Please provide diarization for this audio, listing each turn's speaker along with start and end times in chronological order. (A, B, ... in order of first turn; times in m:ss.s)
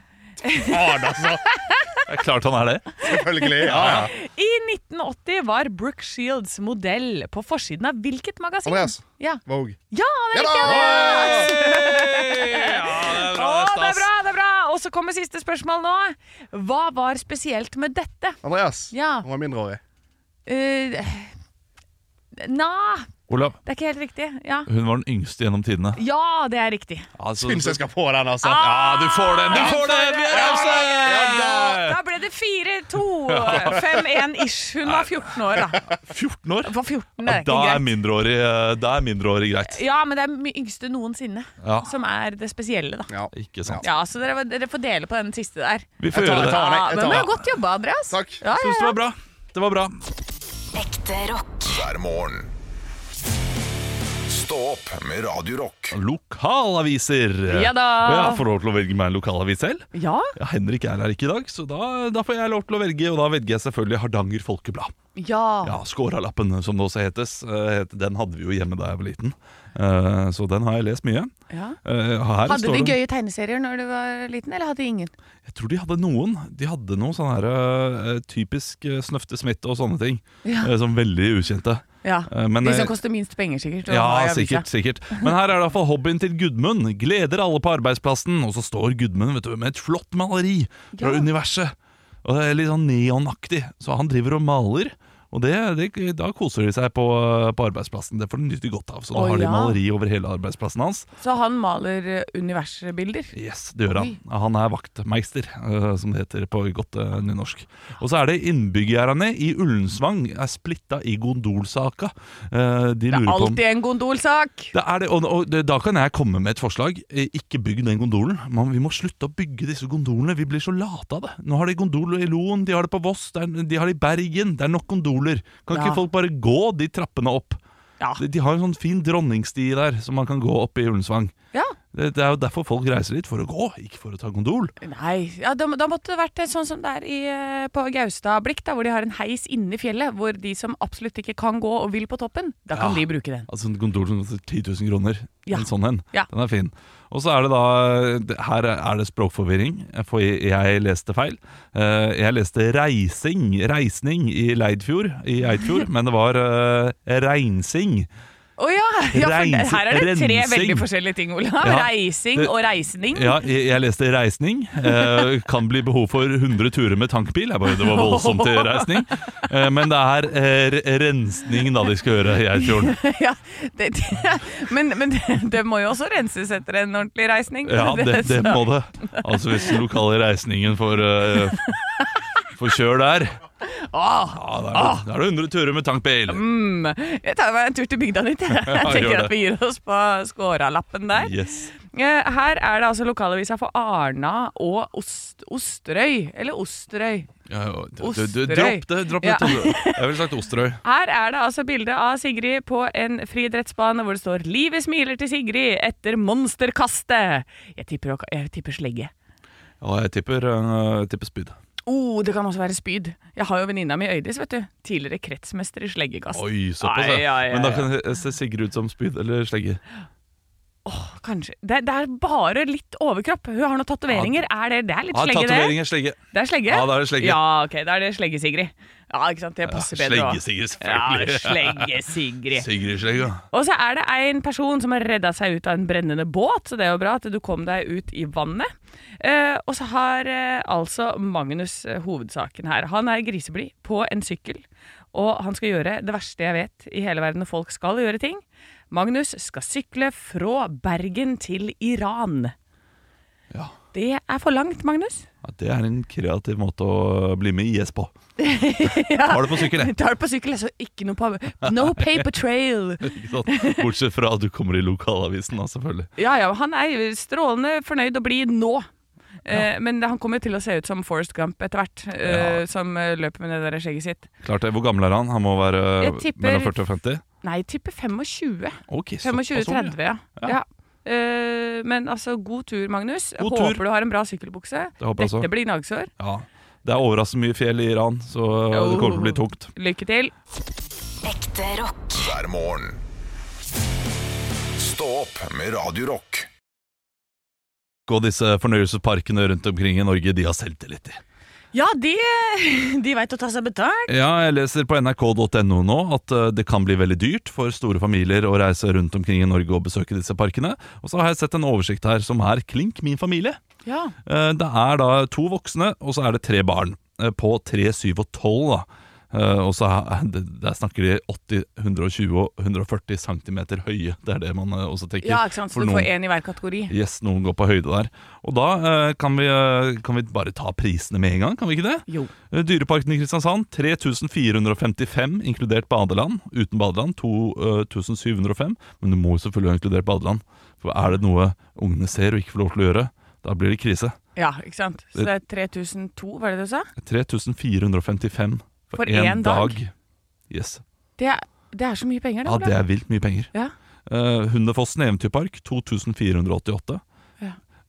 0:00.4-0:02.0 A
0:00.6-0:01.5 B
0:02.1-0:03.0 C
0:03.0-0:04.1 B
0:03.2-0:18.4 A
0:03.6-0:04.1 C
0:08.6-0:09.8 B
0:10.3-0:11.5 B
0:10.6-0:14.1 C
0:18.4-0:19.8 B
0:18.9-0:19.3 A
0:20.5-0:21.3 A
0:22.4-0:23.1 A
0:23.3-0:23.6 C
0:23.6-0:24.7 A
0:24.7-0:26.0 C
0:26.0-0:27.1 A
0:27.2-0:27.8 C
0:27.4-0:28.9 B
0:28.4-0:35.9 A
0:28.6-0:32.0 C
0:29.5-0:31.8 B
0:33.3-0:34.1 C
0:34.8-0:39.8 C
0:36.6-0:37.9 A
0:39.7-0:43.1 A
0:41.6-0:41.9 C
0:43.1-0:43.9 B
0:43.3-0:43.8 C
0:43.8-0:49.0 A
0:46.0-0:47.3 C
0:46.1-0:47.4 B
0:48.1-0:48.4 B
0:48.6-0:50.0 C
0:50.7-0:51.8 D
0:51.7-0:52.5 E
0:54.3-0:56.0 E
0:55.9-1:04.9 C
0:57.5-0:58.4 A
1:00.0-1:00.3 A
1:05.2-1:05.8 A
1:05.6-1:11.3 C
1:11.5-1:11.8 A
1:11.8-1:13.0 C
1:12.5-1:15.1 A
1:15.4-1:22.9 C
1:20.4-1:20.7 A
1:22.0-1:24.7 A
1:23.9-1:41.1 C
1:31.0-1:31.3 A
1:39.1-1:39.8 A
1:41.2-1:43.3 A
1:43.3-1:53.6 C
1:53.1-1:54.7 A
1:54.7-2:07.6 C
2:05.7-2:06.0 A
2:08.2-2:11.3 C
2:11.9-2:14.7 C
2:14.8-2:23.5 A
2:22.7-2:38.1 C
2:25.5-2:26.3 A
2:38.6-2:43.4 A
2:39.1-2:40.9 C
2:41.6-2:42.5 C
2:43.1-2:53.0 C
2:44.8-2:45.2 A
2:47.7-2:49.0 A
2:52.6-2:59.8 A
2:57.6-3:01.7 C
3:01.4-3:02.1 A
3:02.5-3:03.4 C
3:03.6-3:05.0 A
3:04.3-3:06.4 C
3:06.3-3:17.3 A
3:08.5-3:09.3 C
3:11.1-3:11.7 C
3:17.5-3:20.8 C
3:18.0-3:20.1 A
3:20.8-3:29.1 A
3:29.8-3:31.6 C
3:31.9-3:37.9 A
3:36.3-3:39.8 C
3:40.8-3:45.8 A
3:44.1-3:44.4 C
3:45.1-3:47.4 C
3:46.3-3:52.7 A
3:49.7-3:51.9 C
3:52.5-3:53.4 C
3:53.5-4:12.5 A
4:13.9-4:15.3 A
4:15.4-4:18.1 C
4:18.4-4:23.8 A
4:19.2-4:19.9 C
4:21.6-4:22.3 C
4:23.0-4:26.1 C
4:26.2-4:28.9 A
4:29.4-4:34.3 A
4:32.2-4:32.6 C
4:34.4-4:37.2 C
4:36.0-4:36.8 A
4:37.4-4:46.1 A
4:38.9-4:40.6 C
4:43.4-4:43.8 C
4:45.0-4:45.5 C
4:46.2-4:49.7 C
4:48.7-4:50.3 A
4:51.2-4:52.2 D
4:52.2-4:53.0 E
4:54.8-4:56.5 E
4:58.1-5:01.2 C
5:01.7-5:04.1 A
5:04.1-5:13.6 C
5:13.8-5:14.1 A
5:14.3-5:26.1 C
5:25.2-5:26.9 A
5:26.9-5:44.2 C
5:44.4-5:46.9 A
5:47.0-5:49.9 C
5:49.0-5:49.8 A
5:50.5-5:50.8 C
5:51.2-5:52.8 A
5:52.4-5:53.5 C
5:54.1-5:57.0 C